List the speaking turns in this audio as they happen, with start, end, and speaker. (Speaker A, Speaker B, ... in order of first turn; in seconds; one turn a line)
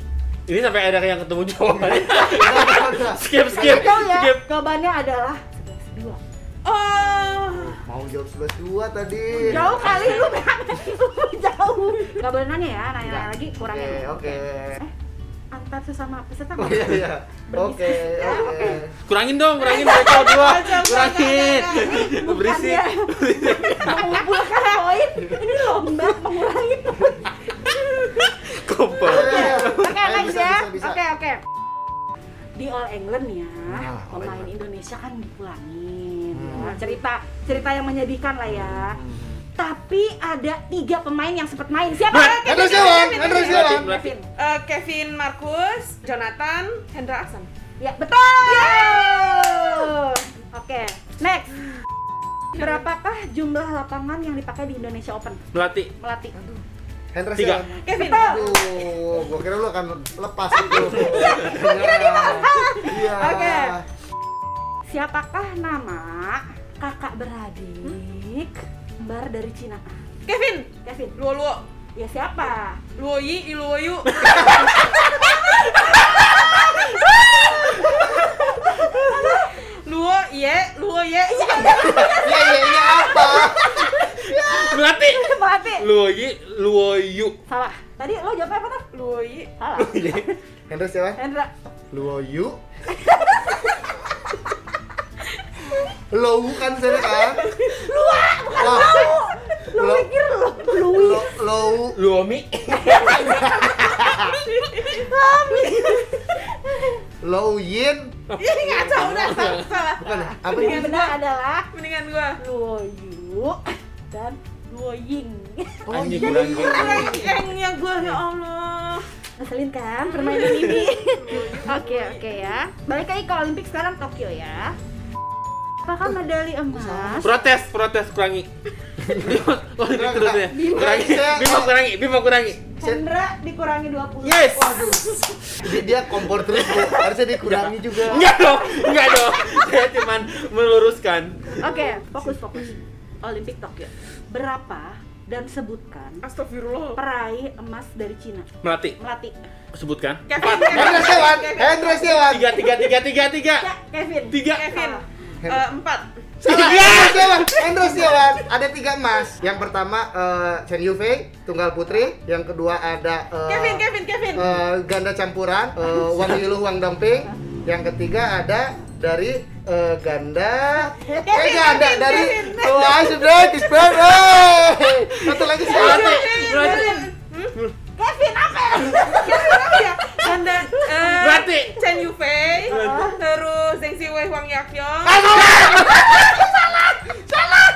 Speaker A: 0.5-4.4
Speaker B: 2.0-3.9
Speaker C: 3.5-6.2
Speaker D: 6.6-7.8
Speaker B: 7.6-10.2
Speaker C: 9.3-14.9
Speaker A: 9.7-9.9
Speaker B: 13.1-14.8
Speaker C: 15.5-17.0
Speaker B: 16.6-18.9
Speaker C: 17.5-18.8
Speaker A: 19.1-24.3
Speaker D: 19.6-22.2
Speaker C: 21.8-23.1
Speaker C: 23.7-27.4
Speaker A: 28.2-30.0
Speaker B: 29.0-31.0
Speaker C: 29.1-31.4
Speaker C: 32.6-39.0
Speaker B: 33.7-34.5
Speaker B: 36.3-36.8
Speaker C: 39.6-42.4
Speaker D: 42.1-47.5
Speaker A: 42.1-44.1
Speaker B: 42.4-43.9
Speaker C: 43.1-44.2
Speaker C: 47.8-51.7
Speaker D: 48.4-49.1
Speaker C: 52.5-55.4
Speaker A: 55.5-55.9
Speaker C: 56.0-56.3
Speaker B: 56.3-63.9
Speaker A: 57.4-57.7
Speaker D: 57.8-58.6
Speaker C: 57.9-58.6
Speaker D: 60.7-62.9
Speaker C: 61.4-63.8
Speaker C: 64.9-70.0
Speaker D: 70.2-71.6
Speaker C: 70.8-71.2
Speaker C: 72.0-72.8
Speaker D: 73.0-78.2
Speaker C: 75.7-79.5
Speaker D: 78.9-83.5
Speaker B: 81.8-83.8
Speaker C: 83.2-85.9
Speaker A: 84.1-85.2
Speaker A: 85.8-87.4
Speaker C: 87.5-88.9
Speaker D: 88.9-89.5
Speaker C: 89.6-90.3
Speaker A: 89.8-90.3
Speaker B: 90.7-91.2
Speaker C: 91.2-91.5
Speaker B: 91.9-92.6
Speaker C: 93.0-93.7
Speaker B: 96.1-97.4
Speaker C: 97.2-101.3
Speaker B: 98.5-99.1
Speaker B: 99.7-100.1
Speaker B: 100.8-102.0
Speaker A: 102.0-103.4
Speaker C: 102.7-107.0
Speaker B: 103.4-104.4
Speaker D: 104.5-105.0
Speaker B: 107.2-108.2
Speaker A: 108.3-109.7
Speaker D: 108.4-111.2
Speaker B: 110.0-110.9
Speaker C: 110.5-111.7
Speaker D: 111.7-112.4
Speaker C: 112.4-117.3
Speaker B: 115.9-117.2
Speaker A: 115.9-117.2
Speaker D: 116.4-119.1
Speaker C: 119.4-124.8
Speaker D: 120.1-122.4
Speaker C: 125.8-127.3
Speaker B: 126.7-127.3
Speaker A: 127.2-128.5
Speaker B: 129.0-129.3
Speaker A: 129.1-132.7
Speaker B: 129.9-131.7
Speaker C: 130.5-131.2
Speaker C: 132.8-134.6
Speaker A: 134.2-134.9
Speaker B: 134.6-138.3
Speaker A: 137.4-141.5
Speaker C: 141.6-146.2
Speaker D: 146.2-147.0
Speaker C: 147.0-149.4
Speaker A: 148.6-149.0
Speaker A: 149.7-151.1
Speaker D: 150.3-152.2
Speaker C: 150.4-150.9
Speaker B: 150.7-152.5
Speaker A: 152.1-153.7
Speaker C: 153.6-155.1
Speaker A: 154.3-154.7
Speaker D: 154.5-156.1
Speaker B: 156.4-176.2
Speaker A: 156.4-158.0
Speaker D: 157.7-158.3
Speaker D: 163.5-164.5
Speaker C: 170.8-171.5
Speaker D: 171.2-173.2
Speaker A: 173.8-174.2
Speaker A: 175.1-177.7
Speaker D: 175.6-177.6
Speaker C: 176.2-177.0
Speaker C: 178.0-181.5
Speaker D: 179.1-185.3
Speaker A: 181.2-181.8
Speaker A: 182.7-183.1
Speaker C: 182.7-183.2
Speaker B: 185.1-186.5